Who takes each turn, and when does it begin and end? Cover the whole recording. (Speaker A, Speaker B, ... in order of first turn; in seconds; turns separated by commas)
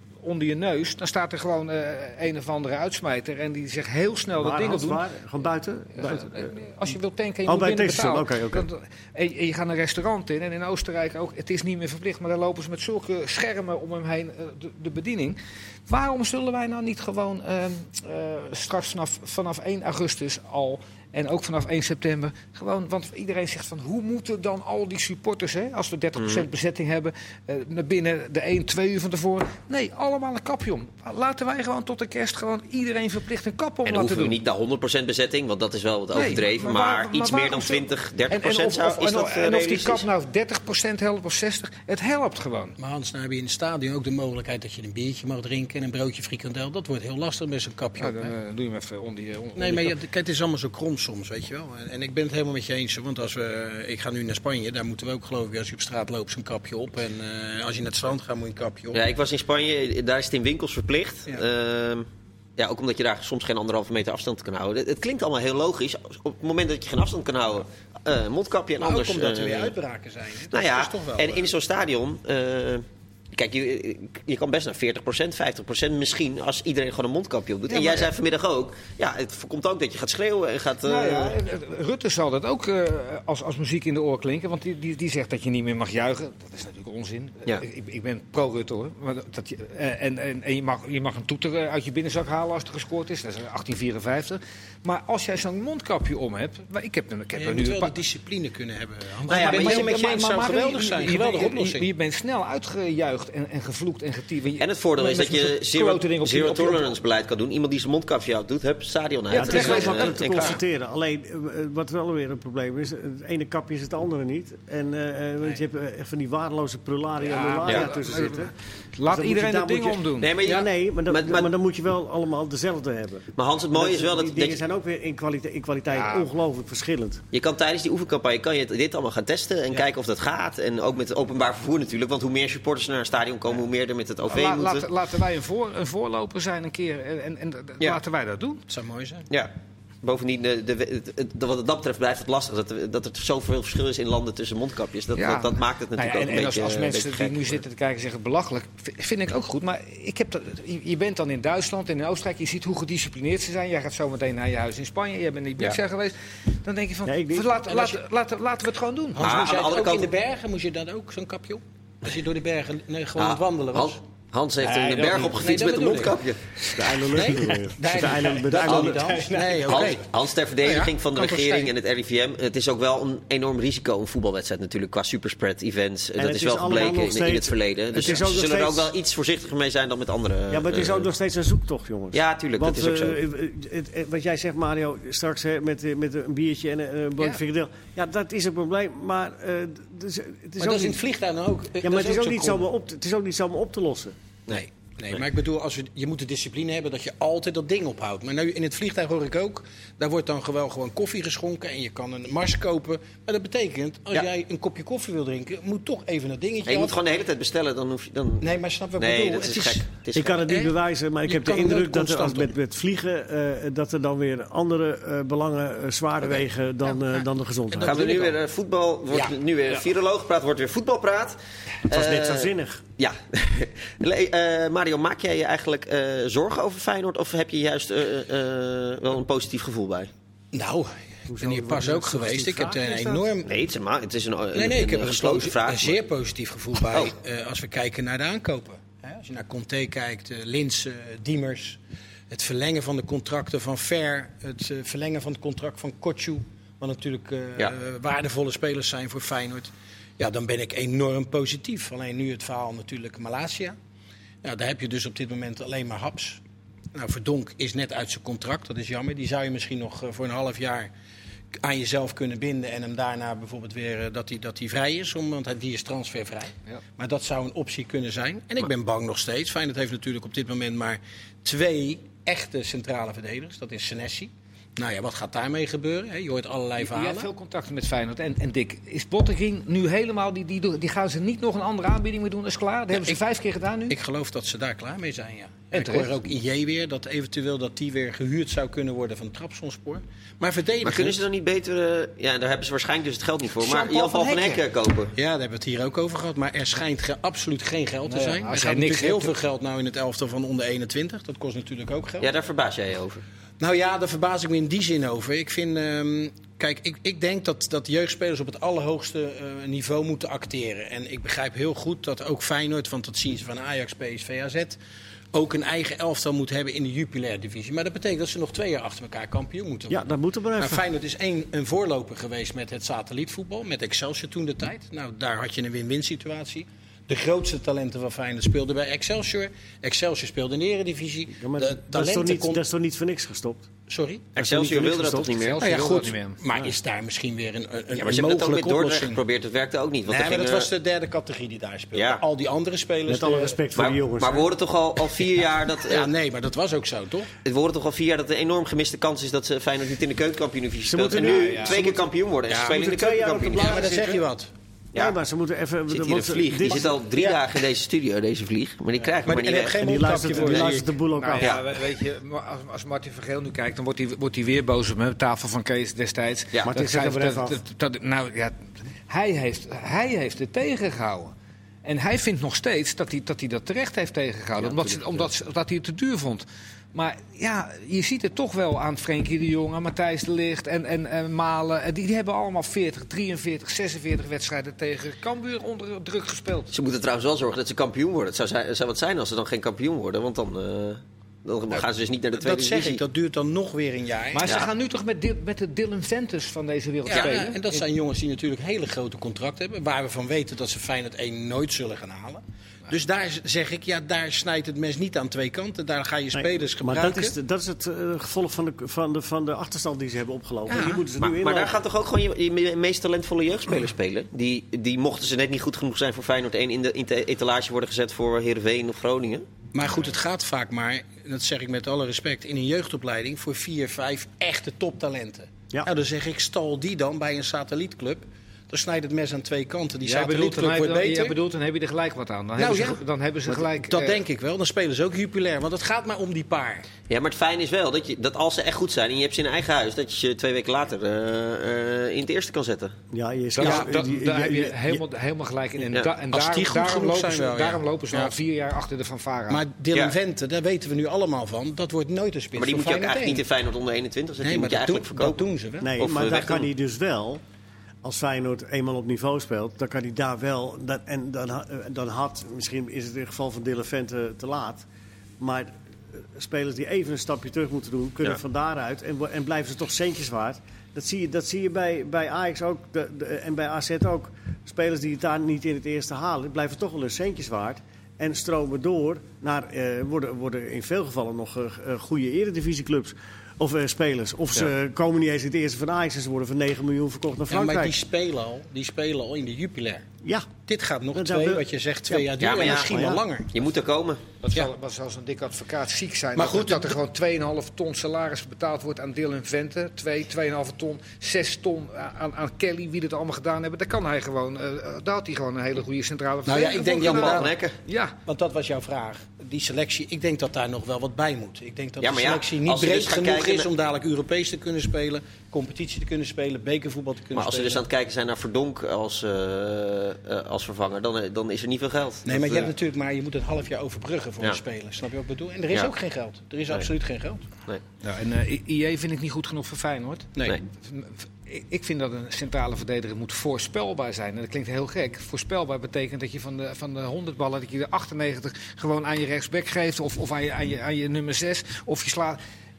Speaker A: 0.2-5.0, Speaker B: 4.4-6.5, Speaker A: 6.0-34.4, Speaker B: 7.5-8.7, Speaker C: 26.2-26.4, Speaker C: 33.9-40.1, Speaker A: 36.1-42.8, Speaker D: 42.8-48.3, Speaker A: 48.0-50.0, Speaker D: 49.6-59.0, Speaker C: 58.9-69.7, Speaker D: 68.8-71.5, Speaker C: 70.5-81.4, Speaker A: 77.7-78.1, Speaker A: 80.8-98.0, Speaker D: 97.4-101.9, Speaker C: 99.3-100.0, Speaker A: 99.3-107.0, Speaker C: 104.6-110.6, Speaker B: 109.3-118.5, Speaker A: 109.3-110.5, Speaker A: 117.2-120.3, Speaker B: 119.1-127.2, Speaker C: 120.2-121.5, Speaker C: 123.3-124.6, Speaker A: 125.9-126.3, Speaker C: 127.3-134.9, Speaker A: 134.3-138.6, Speaker D: 138.7-139.2, Speaker C: 139.3-147.6, Speaker A: 145.1-159.2, Speaker B: 157.1-157.5, Speaker D: 157.7-158.0, Speaker D: 159.1-164.0, Speaker C: 159.2-160.1, Speaker C: 163.2-166.4, Speaker A: 164.6-165.3, Speaker D: 164.7-166.2, Speaker B: 166.7-169.1, Speaker D: 167.1-170.1, Speaker A: 168.5-169.9, Speaker C: 168.7-168.9, Speaker C: 169.7-181.1, Speaker D: 170.6-171.7, Speaker B: 176.2-178.9, Speaker B: 180.5-191.0, Speaker C: 182.1-183.2, Speaker D: 190.6-192.7, Speaker B: 191.8-194.1, Speaker D: 194.5-207.0, Speaker C: 206.7-210.4, Speaker D: 208.4-209.9, Speaker B: 210.1-218.2, Speaker D: 210.4-210.7, Speaker D: 211.2-212.5, Speaker D: 217.7-218.4, Speaker C: 217.8-230.1, Speaker D: 219.1-219.4, Speaker B: 221.9-222.8, Speaker D: 230.5-233.5, Speaker B: 231.3-233.3, Speaker C: 233.4-235.9, Speaker D: 234.5-241.8, Speaker C: 236.8-237.1, Speaker D: 242.3-253.7, Speaker D: 254.4-256.4, Speaker D: 256.9-260.9, Speaker D: 261.5-277.3, Speaker A: 276.8-283.9, Speaker D: 282.9-283.2, Speaker D: 283.9-291.2, Speaker A: 285.7-286.1, Speaker C: 290.8-295.1, Speaker A: 293.6-294.6, Speaker D: 295.1-302.3, Speaker A: 298.1-299.3, Speaker C: 302.2-303.2, Speaker D: 303.6-314.8, Speaker D: 315.3-320.0, Speaker B: 319.9-320.9, Speaker D: 320.6-332.6, Speaker B: 331.4-333.7, Speaker D: 333.9-334.4, Speaker C: 334.4-336.0, Speaker B: 334.4-335.4, Speaker A: 335.3-336.4, Speaker D: 335.6-339.2, Speaker C: 337.9-340.7, Speaker D: 340.1-343.6, Speaker C: 341.9-342.2, Speaker B: 343.1-344.5, Speaker C: 343.8-346.1, Speaker D: 345.8-347.3, Speaker C: 347.4-353.9, Speaker B: 350.9-354.2, Speaker A: 351.1-351.9, Speaker D: 352.5-352.8, Speaker D: 353.5-354.5, Speaker B: 354.9-356.9, Speaker C: 355.9-359.8, Speaker D: 356.6-357.4, Speaker D: 359.2-360.9, Speaker B: 359.8-361.5, Speaker A: 361.1-386.7, Speaker B: 366.6-367.6, Speaker C: 386.7-393.0, Speaker D: 391.7-394.6, Speaker A: 394.3-397.8, Speaker D: 397.1-407.3, Speaker C: 397.1-397.4, Speaker B: 406.3-411.8, Speaker A: 410.7-411.0, Speaker C: 411.2-419.5, Speaker D: 419.7-431.4, Speaker A: 430.0-434.2, Speaker D: 432.6-436.9, Speaker C: 437.1-443.0, Speaker B: 443.1-445.0, Speaker A: 443.6-449.6, Speaker D: 446.3-448.3, Speaker D: 449.5-453.4, Speaker C: 452.6-455.4, Speaker D: 454.4-455.9, Speaker B: 455.8-457.4, Speaker C: 456.0-456.7, Speaker B: 458.0-464.9, Speaker B: 465.4-487.9, Speaker D: 487.5-490.1, Speaker B: 490.2-490.5, Speaker D: 490.7-493.5, Speaker B: 491.1-493.2, Speaker C: 492.4-494.2, Speaker A: 494.4-508.1, Speaker D: 496.4-496.9, Speaker D: 506.5-507.5, Speaker C: 507.0-507.8, Speaker D: 508.3-517.8, Speaker C: 512.0-513.7, Speaker C: 517.4-522.7, Speaker D: 522.2-527.4, Speaker A: 528.0-542.4, Speaker D: 530.4-530.6